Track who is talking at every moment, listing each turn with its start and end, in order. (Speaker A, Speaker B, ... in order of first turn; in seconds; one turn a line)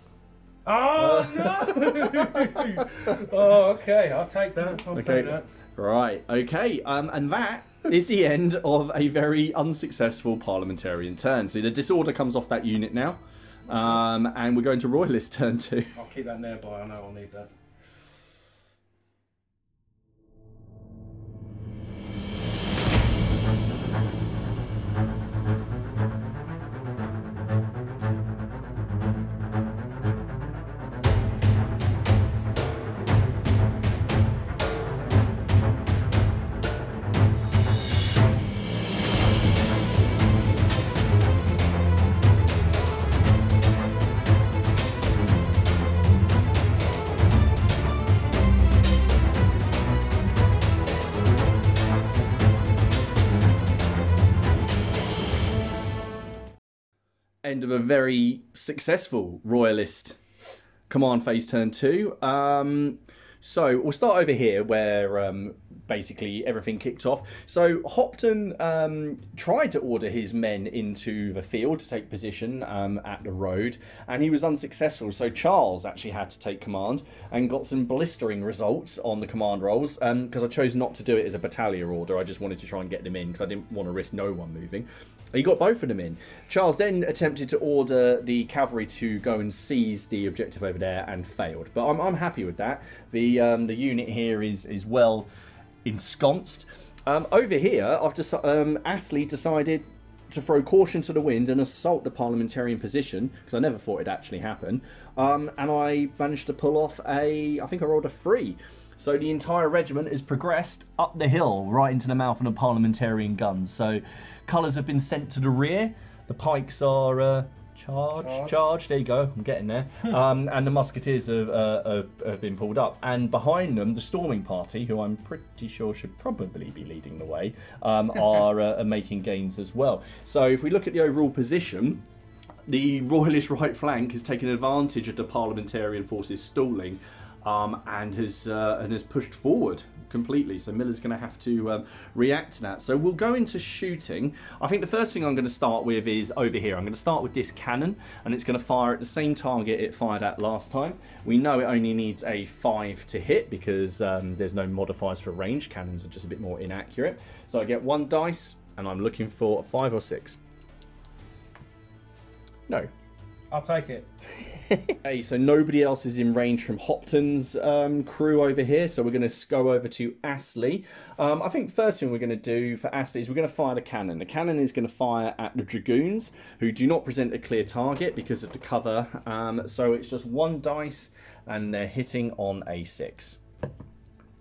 Speaker A: 0.6-5.5
Speaker B: 0.9-3.3
Speaker B: 4.9-15.9
Speaker A: 15.9-17.5
Speaker B: 57.4-60.2
Speaker B: 60.9-95.3
Speaker B: 95.8-132.0
Speaker A: 118.2-118.6
Speaker B: 132.7-160.4
Speaker A: 163.5-164.1
Speaker B: 164.5-183.4